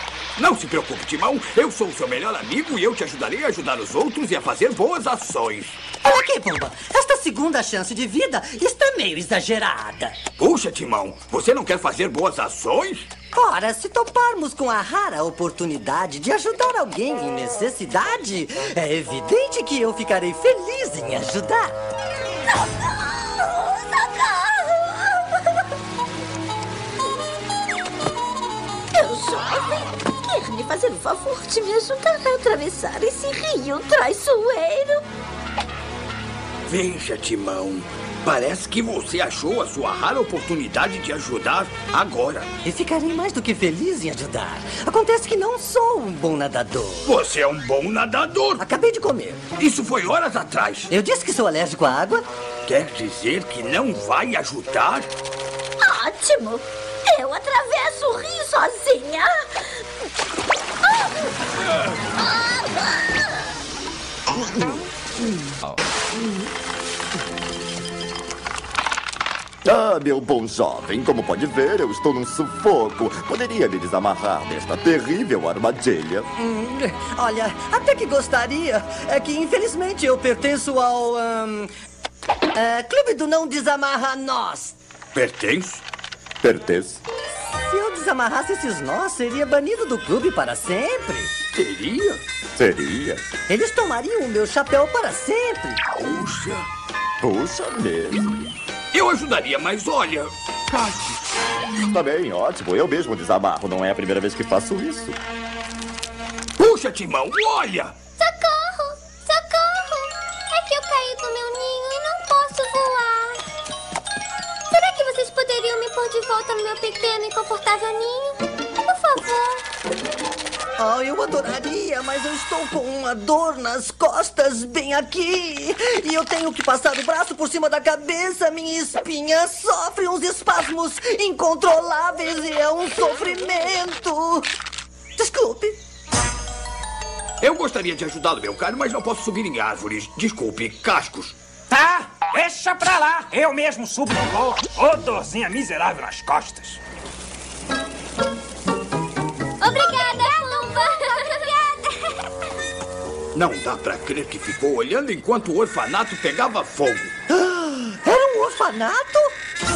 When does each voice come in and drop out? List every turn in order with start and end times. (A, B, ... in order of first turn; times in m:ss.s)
0:00.4-0:05.8 A
0:06.0-0:10.2 B
0:10.4-0:13.1 A
0:13.3-0:21.7 B
0:22.6-0:25.2 C
0:28.9-0:35.0 C
0:36.7-0:42.5 A
0:42.6-0:47.1 B
0:47.0-0:48.6 A
0:48.6-0:49.4 B
0:49.5-0:50.9 A
0:50.9-0:52.2 B
0:52.6-0:55.1 A
0:55.8-0:59.3 C
1:09.6-1:16.3 D
1:16.4-1:21.7 B
1:22.5-1:24.8 B
1:25.1-1:25.8 A
1:26.4-1:27.0 D
1:27.5-1:31.3 B
1:31.5-1:32.2 A
1:32.6-1:33.3 D
1:33.5-1:35.8 B
1:35.9-1:36.7 A
1:37.2-1:38.4 D
1:38.9-1:41.4 A
1:41.8-1:45.2 D
1:46.6-1:48.0 A
1:48.2-1:53.4 E
1:54.7-1:59.6 E
2:00.8-2:14.4 B
2:15.2-2:15.8 B
2:17.4-2:21.4 A
2:21.7-2:26.8 F
2:29.6-2:32.2 E
2:33.3-2:37.1 A
2:37.3-2:39.3 B